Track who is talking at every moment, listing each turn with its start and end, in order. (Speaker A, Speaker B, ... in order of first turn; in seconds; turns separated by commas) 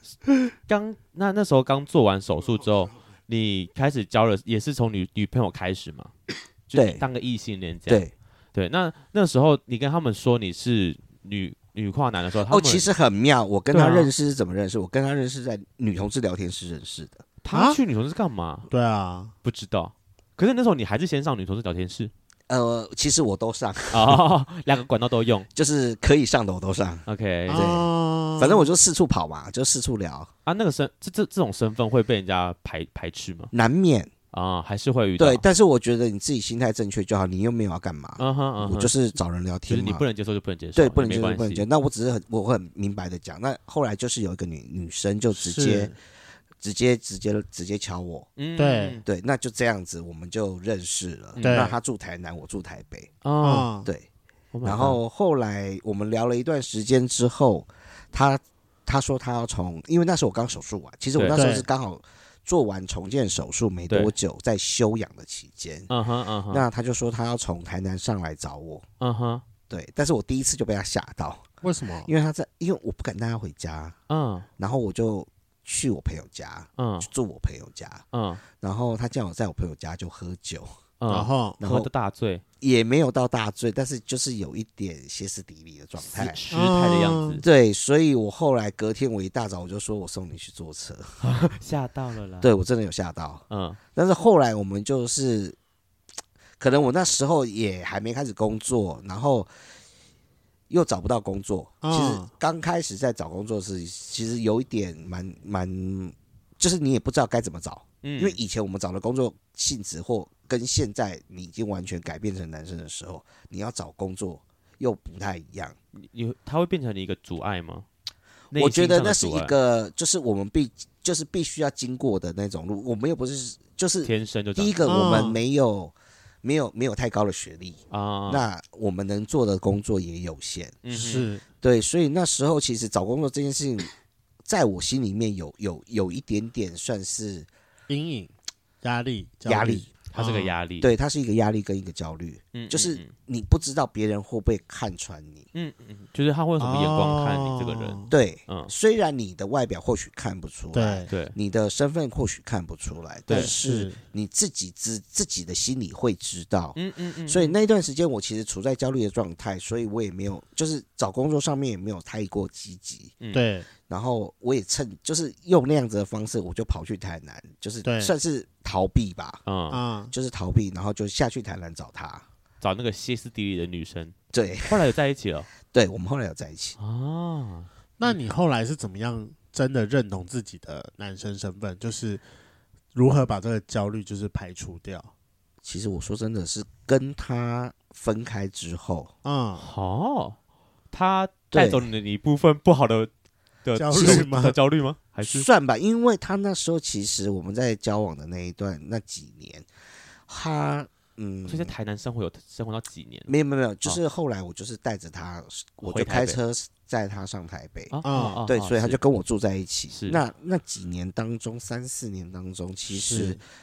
Speaker A: 0.7-6.1, Speaker A: 6.7-12.9, Speaker B: 6.7-7.0, Speaker B: 7.9-8.1, Speaker B: 12.5-17.2, Speaker A: 13.7-14.1, Speaker A: 17.4-18.7, Speaker C: 17.5-17.8, Speaker C: 18.7-19.3, Speaker A: 19.4-22.1, Speaker B: 22.5-24.2, Speaker A: 23.9-25.5, Speaker B: 25.6-30.3, Speaker A: 27.1-27.7, Speaker C: 27.5-28.7, Speaker A: 30.5-33.5, Speaker B: 33.5-34.1, Speaker A: 34.3-35.4, Speaker B: 35.2-40.0, Speaker A: 38.2-38.9, Speaker A: 39.7-41.7, Speaker B: 40.8-45.9, Speaker C: 45.3-46.0, Speaker B: 46.6-48.3, Speaker A: 48.4-49.0, Speaker C: 48.6-49.0, Speaker B: 49.0-53.1, Speaker A: 51.4-51.7, Speaker C: 51.4-51.8, Speaker A: 53.2-53.7, Speaker C: 53.4-53.9, Speaker A: 54.5-55.0, Speaker B: 54.6-65.9, Speaker A: 61.2-61.4, Speaker C: 61.3-61.7, Speaker A: 65.9-66.7, Speaker B: 66.5-68.8, Speaker A: 69.0-69.4, Speaker B: 69.7-71.5, Speaker C: 71.6-72.1, Speaker B: 72.0-74.0, Speaker A: 74.1-74.5, Speaker B: 74.6-78.0, Speaker A: 76.8-77.1, Speaker A: 78.1-78.4, Speaker B: 78.6-80.7, Speaker A: 81.0-82.4, Speaker C: 81.1-81.6, Speaker B: 81.6-81.9, Speaker B: 82.6-86.4, Speaker A: 86.0-87.4, Speaker C: 86.5-87.4, Speaker B: 87.4-91.2, Speaker A: 91.2-92.5, Speaker B: 92.4-93.4, Speaker A: 93.5-93.8, Speaker B: 94.0-95.6, Speaker B: 96.6-99.5, Speaker B: 100.7-115.8, Speaker C: 101.8-102.3, Speaker A: 108.0-108.4, Speaker A: 116.0-117.9, Speaker A: 118.5-119.5, Speaker B: 118.5-130.8, Speaker A: 124.0-124.8, Speaker C: 124.9-125.4, Speaker A: 127.9-128.4, Speaker A: 130.8-131.3, Speaker C: 130.9-131.4, Speaker B: 131.6-133.9, Speaker B: 134.4-137.5, Speaker C: 137.9-140.6, Speaker B: 139.5-139.9, Speaker A: 140.1-140.9, Speaker B: 140.8-145.5, Speaker A: 142.5-143.1, Speaker A: 145.5-148.7, Speaker C: 146.6-148.1, Speaker B: 148.1-163.2, Speaker C: 150.7-151.1, Speaker A: 151.1-151.3, Speaker A: 153.3-153.5, Speaker C: 153.3-154.0, Speaker A: 156.8-157.6, Speaker C: 163.3-163.7, Speaker B: 163.9-169.4, Speaker C: 167.8-168.1, Speaker A: 169.4-169.8, Speaker C: 169.7-170.1, Speaker B: 170.1-172.3, Speaker A: 172.6-175.5, Speaker B: 174.3-174.8, Speaker B: 175.7-176.8, Speaker A: 176.8-178.1, Speaker C: 178.0-182.2, Speaker C: 182.9-185.1, Speaker B: 185.6-189.1, Speaker C: 189.2-189.7, Speaker A: 189.6-190.4, Speaker A: 190.9-193.1, Speaker B: 191.5-191.9, Speaker A: 193.6-195.5, Speaker C: 193.8-194.6, Speaker B: 195.2-199.7, Speaker B: 200.3-201.7, Speaker A: 201.5-203.3, Speaker B: 203.3-213.4, Speaker A: 205.8-206.4, Speaker A: 207.9-209.0, Speaker C: 208.0-208.4, Speaker A: 209.9-210.2, Speaker C: 212.9-213.4